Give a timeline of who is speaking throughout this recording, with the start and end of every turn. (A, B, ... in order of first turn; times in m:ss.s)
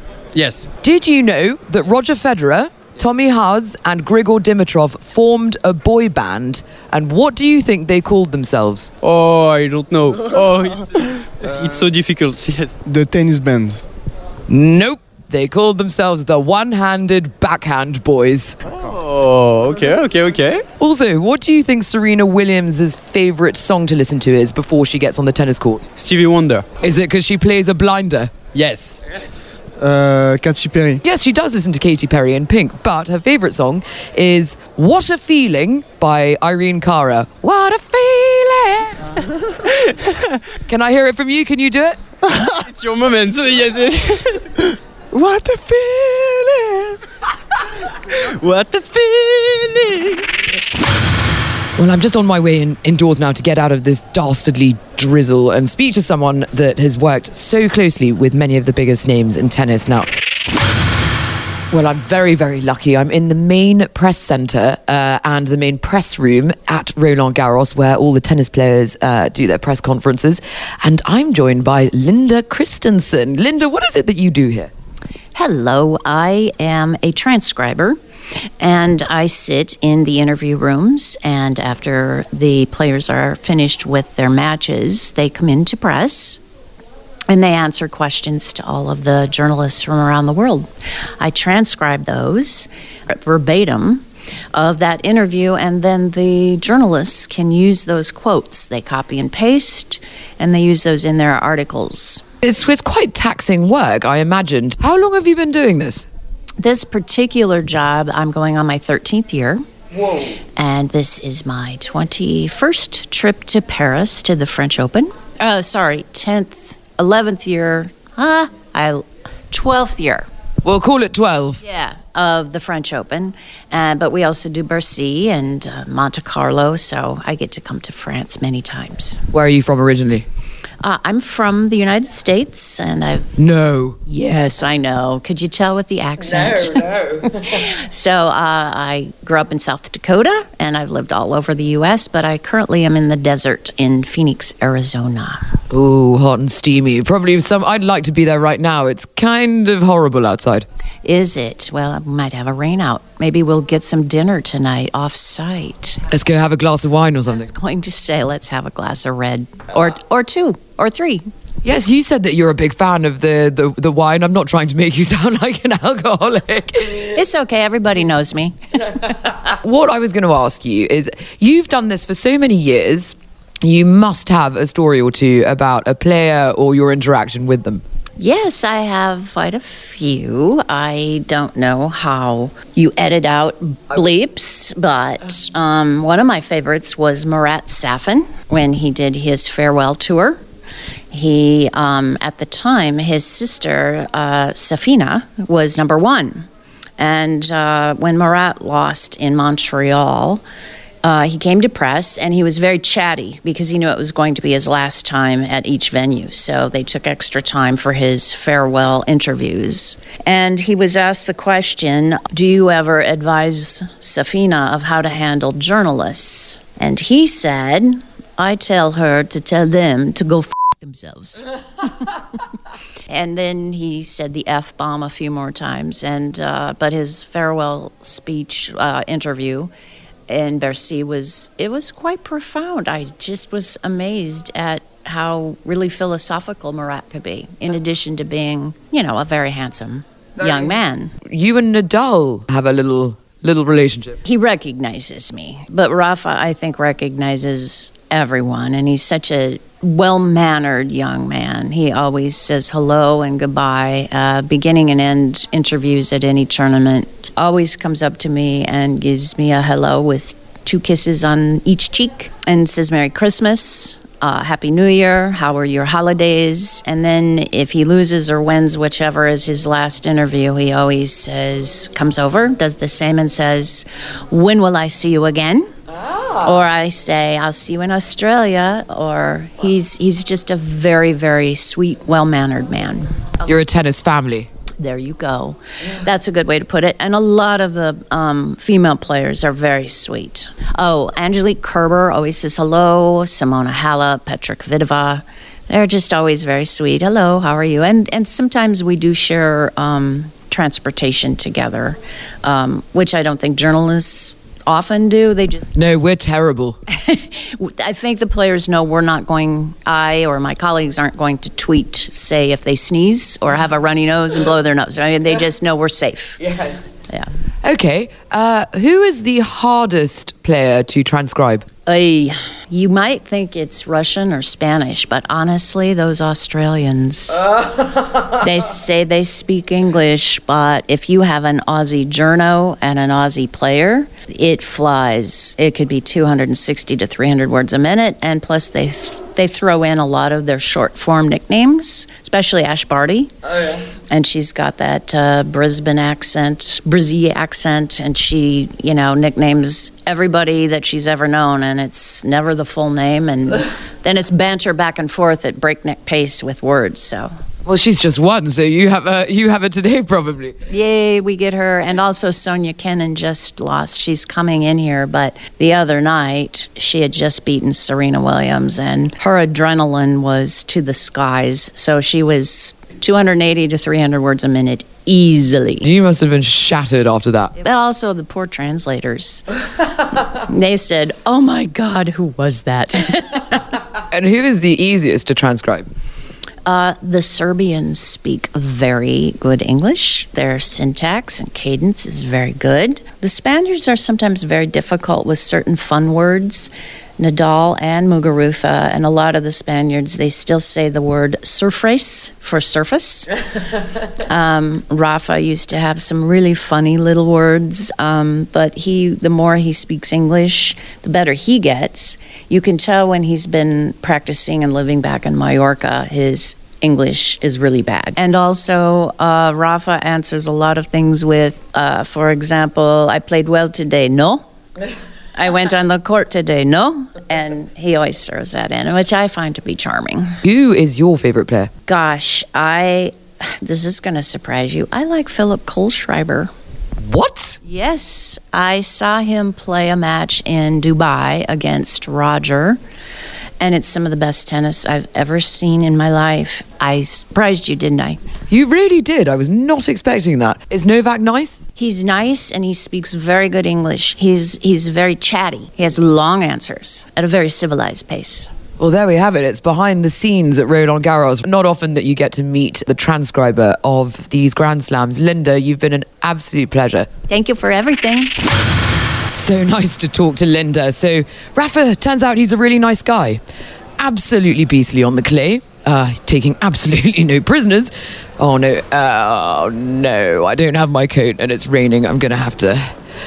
0:00.4-0:00.6 A
0:00.8-0:08.9 B
0:09.0-0:12.7 A
0:12.8-0:13.8 C
0:14.5-0:18.6 B
0:18.8-0:20.6 A
0:20.8-0:25.8 B
0:26.0-0:26.6 A
0:26.8-0:28.3 B
0:28.5-0:29.0 A
0:29.8-0:31.0 C
0:31.0-0:39.1 B
0:40.7-0:42.0 B
0:42.3-0:44.5 A
0:45.1-0:46.9 C
0:48.4-0:50.2 A
0:51.8-1:00.1 B
1:01.7-1:14.7 B
1:15.3-1:18.0 D
1:18.6-1:26.4 D
1:27.3-1:30.7 D
1:31.2-1:42.2 D
1:42.4-1:46.1 B
1:46.6-1:49.6 D
1:50.6-2:00.3 D
2:00.6-2:01.6 B
2:01.6-2:09.2 D
2:09.3-2:10.2 B
2:10.8-2:13.3 D
2:13.4-2:14.0 B
2:14.0-2:25.4 D
2:16.2-2:17.3 B
2:25.7-2:30.6 B
2:31.0-2:36.0 D
2:36.1-2:37.5 B
2:37.3-2:41.2 D
2:41.6-2:47.1 B
2:47.0-2:49.0 D
2:49.4-2:57.8 B
2:58.2-3:10.4 D
3:11.1-3:16.5 D
3:17.0-3:20.4 D
3:21.0-3:41.4 D
3:43.1-3:49.7 D
3:50.3-4:01.1 D
4:00.4-4:04.2 B
4:04.2-4:35.6 D
4:36.4-4:43.1 D
4:43.4-4:44.5 B
4:44.8-5:05.7 D
5:05.7-5:06.8 B
5:06.9-5:16.4 D
5:16.4-5:16.8 B
5:17.6-5:21.6 B
5:21.8-5:27.5 D
5:28.3-5:43.3 D
5:44.1-5:57.3 D
5:57.6-6:00.5 B
6:00.7-6:15.9 D
6:15.8-6:17.5 B
6:17.6-6:19.4 D
6:20.3-6:23.6 D
6:24.1-6:25.9 B
6:26.6-6:43.3 D
6:44.2-7:04.4 D
7:05.4-7:10.3 D
7:10.4-7:11.7 B
7:11.9-7:16.5 D
7:17.0-7:17.6 B
7:17.6-7:22.8 D
7:23.6-7:28.2 D
7:28.5-7:31.6 B
7:31.8-7:38.5 D
7:38.8-7:47.1 B
7:47.3-7:48.3 D
7:49.2-7:53.4 B
7:54.0-8:02.8 B